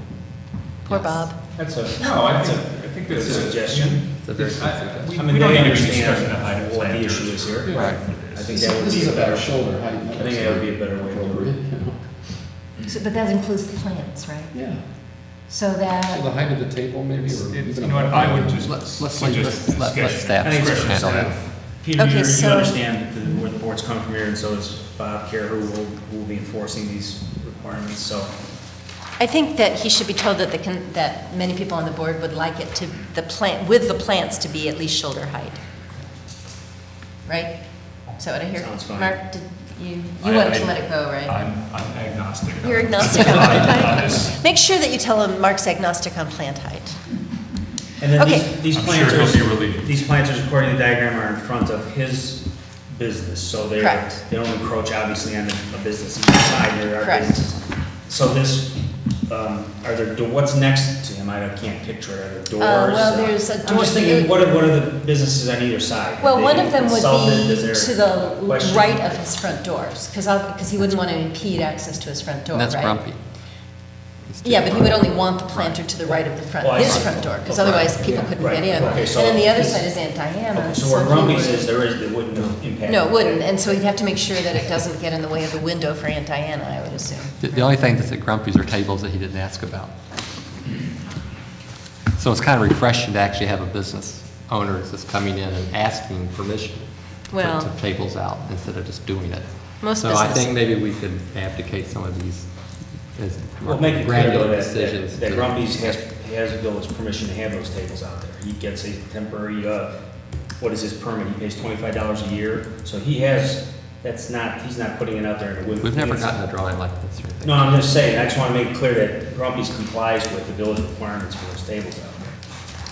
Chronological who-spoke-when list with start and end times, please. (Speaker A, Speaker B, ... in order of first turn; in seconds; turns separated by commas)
Speaker A: 0.9-1.3, Speaker B: 0.9-1.4, Speaker C: 1.6-7.8, Speaker D: 1.6-8.6, Speaker A: 4.2-5.1, Speaker E: 7.7-12.1, Speaker A: 7.7-8.0, Speaker C: 8.3-9.6, Speaker C: 10.1-11.5, Speaker B: 12.9-14.6, Speaker E: 14.5-14.8, Speaker B: 15.4-16.2, Speaker E: 16.1-18.9, Speaker D: 17.2-21.5, Speaker A: 18.6-21.3, Speaker C: 20.4-28.3, Speaker B: 22.0-22.8, Speaker B: 29.2-35.6, Speaker B: 37.2-37.5, Speaker B: 38.1-41.4, Speaker C: 38.5-39.2, Speaker D: 40.2-44.4, Speaker B: 42.6-47.0, Speaker C: 48.0-69.2, Speaker B: 48.2-48.5, Speaker D: 48.7-49.9, Speaker B: 57.0-57.4, Speaker B: 62.6-64.4, Speaker B: 66.2-73.0, Speaker A: 72.5-73.2, Speaker A: 74.3-75.9, Speaker B: 74.4-81.7, Speaker C: 76.0-79.8, Speaker A: 76.8-77.4, Speaker C: 80.5-83.8, Speaker B: 82.9-87.7, Speaker A: 87.4-89.9, Speaker A: 92.2-102.5, Speaker B: 97.3-97.7, Speaker B: 99.8-100.5, Speaker A: 103.2-106.0, Speaker C: 103.6-109.9, Speaker C: 110.6-116.4, Speaker A: 115.8-117.8, Speaker C: 117.4-122.3